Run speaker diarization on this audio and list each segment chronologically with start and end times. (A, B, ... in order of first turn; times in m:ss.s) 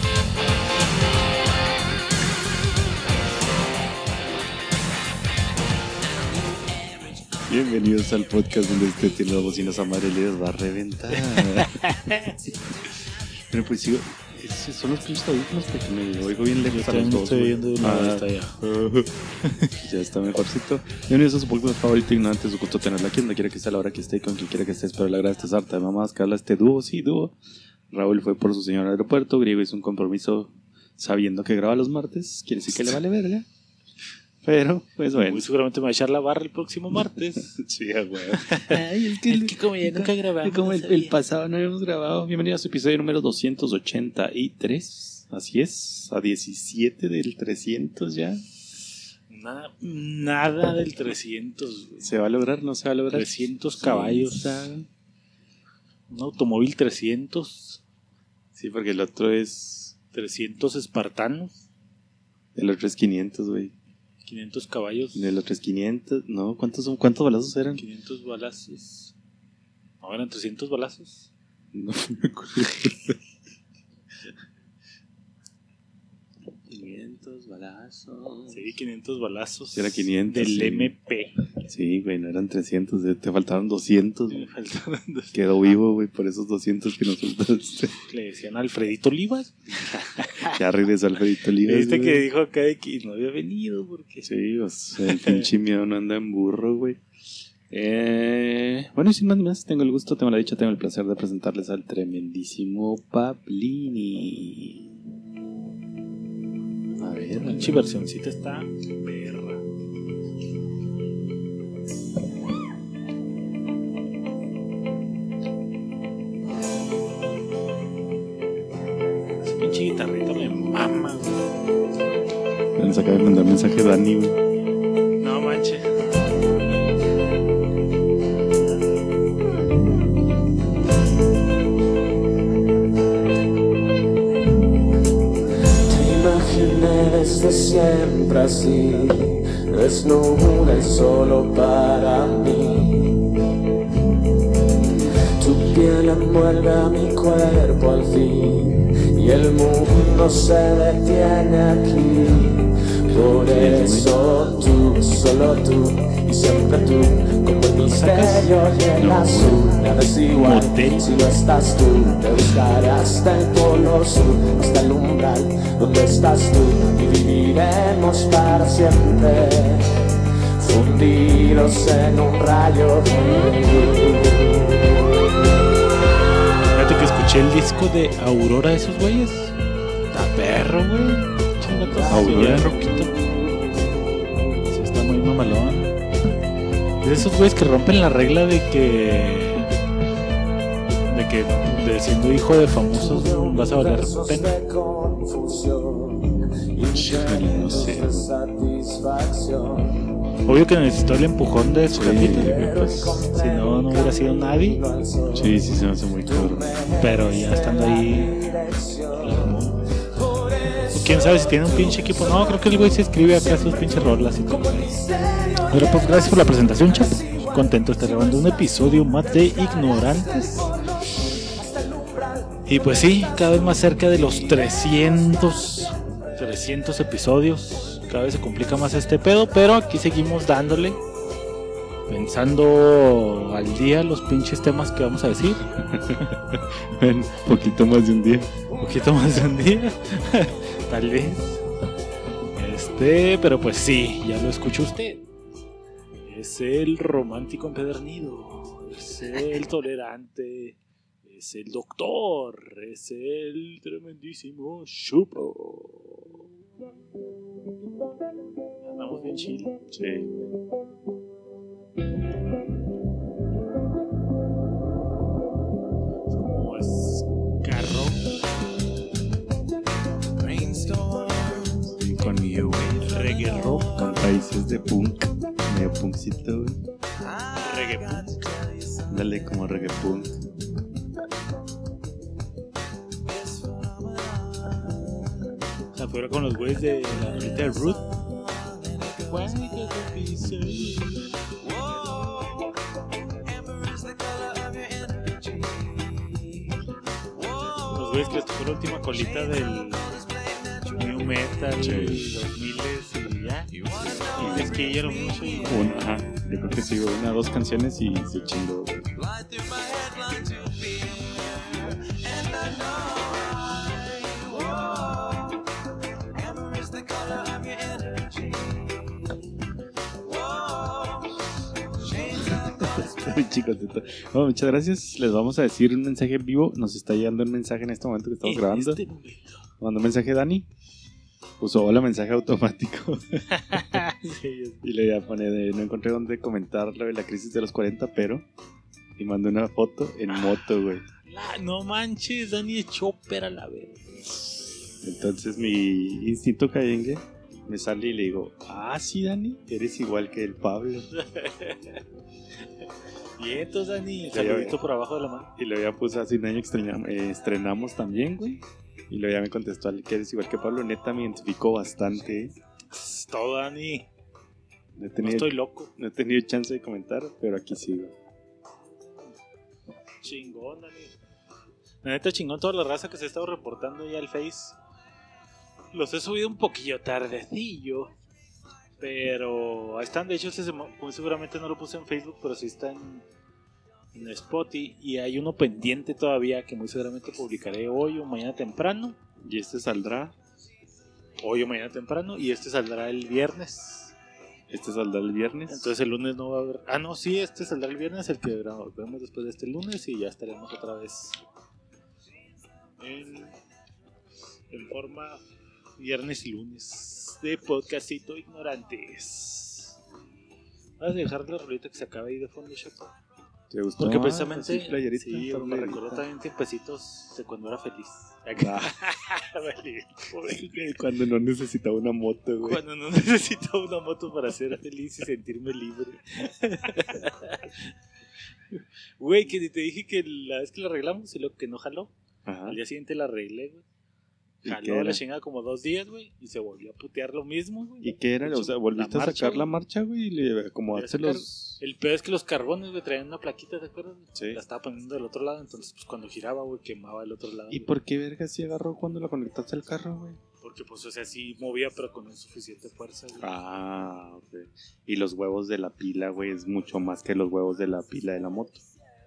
0:07.4-0:11.8 A
0:11.3-0:12.3 B
0:13.5-0:19.1 A
0:16.6-0:18.6 B
0:19.4-0:19.7 B
0:19.8-0:27.4 A
0:27.9-0:33.5 A
0:34.4-0:35.4 A
0:35.1-0:37.6 B
0:37.4-0:48.4 A
0:38.3-0:41.2 B
0:49.3-0:52.1 B
0:52.0-0:54.9 A
0:53.1-0:54.7 B
0:56.1-0:57.8 B
0:58.6-0:59.9 A
1:00.1-1:01.6 B
1:02.6-1:03.7 A
1:04.2-1:05.3 B
1:05.2-1:07.8 A
1:07.7-1:09.1 B
1:10.0-1:11.3 B
1:11.7-1:13.2 A
1:16.7-1:18.6 A
1:18.5-1:21.4 B
1:19.7-1:20.9 A
1:21.6-1:24.5 A
1:24.3-1:25.4 B
1:25.3-1:28.0 A
1:28.1-1:30.6 B
1:30.4-1:32.2 A
1:31.6-1:34.3 B
1:34.2-1:37.0 A
1:35.0-1:35.5 B
1:37.7-1:44.9 A
1:47.0-1:47.9 A
1:47.4-1:49.6 B
1:59.4-2:01.5 B
2:02.8-2:04.3 A
2:05.2-2:06.1 B
2:15.8-2:23.3 C
2:25.3-2:54.9 C
2:33.4-2:34.1 A
2:37.8-2:38.8 B
2:38.9-2:39.9 A
2:39.8-2:41.1 B
2:56.7-2:59.5 B
3:00.1-3:03.1 B
3:01.9-3:03.2 C
3:02.1-3:02.8 A
3:04.6-3:06.0 B
3:07.0-3:09.7 B
3:11.1-3:14.5 B
3:12.9-3:20.1 C
3:16.9-3:18.3 A
3:20.4-3:24.8 B
3:21.9-3:22.7 A
3:22.1-3:42.6 C
3:25.3-3:26.7 A
3:27.0-3:28.4 B
3:29.1-3:30.0 B
3:30.9-3:35.0 B
3:35.6-3:40.7 B
3:42.7-3:51.0 B
3:44.0-3:44.7 C
3:52.1-3:55.6 B
3:55.8-3:58.5 A
3:58.8-4:01.6 B
4:02.6-4:05.2 B
4:06.2-4:16.4 B
4:18.9-4:19.8 B
4:19.9-4:20.5 A
4:26.3-4:28.4 B
4:30.5-4:31.3 B
4:31.8-4:33.1 A
4:32.9-4:34.1 B
4:33.7-4:36.8 A
4:37.5-4:38.5 B
4:39.1-4:40.4 A
4:45.9-4:48.2 B
4:49.2-4:51.4 B
4:50.5-4:51.0 A
4:52.2-4:52.5 C
4:54.0-4:55.2 C
4:57.8-5:00.2 B
5:00.9-5:05.9 B
5:01.8-5:02.3 A
5:04.3-5:04.8 A
5:05.6-5:09.2 A
5:09.7-5:10.4 C
5:16.8-5:18.2 C
5:22.3-5:29.0 A
5:28.4-5:29.6 B
5:29.8-5:30.7 A
5:31.6-5:33.4 A
5:33.5-5:34.8 B
5:34.8-5:38.5 A
5:39.2-5:41.0 A
5:40.3-5:44.4 B
5:45.0-5:51.1 A
5:51.1-5:52.0 B
5:53.4-5:55.5 B
5:54.3-5:54.8 A
5:55.6-6:02.5 A
6:02.9-6:04.1 B
6:05.0-6:08.1 A
6:05.2-6:05.9 B
6:10.2-6:11.1 B
6:12.0-6:14.8 B
6:15.9-6:18.1 B
6:19.0-6:23.2 B
6:24.1-6:29.2 B
6:29.4-6:30.3 A
6:31.4-6:34.1 B
6:34.7-6:35.9 A
6:35.7-6:41.4 B
6:43.0-6:43.6 B
6:44.7-6:45.4 B
6:46.0-6:50.0 B
6:51.0-6:53.2 B
6:53.7-6:56.2 A
6:54.0-7:00.8 B
6:58.6-6:58.9 A
7:00.4-7:02.8 A
7:02.6-7:07.9 B
7:08.7-7:12.1 B
7:12.4-7:12.8 A
7:12.6-7:13.8 B
7:14.6-7:15.2 A
7:14.6-7:19.7 B
7:18.0-7:21.8 A
7:20.9-7:27.9 B
7:24.3-7:24.6 A
7:27.7-7:30.4 A
7:30.6-7:33.5 B
7:33.4-7:38.8 A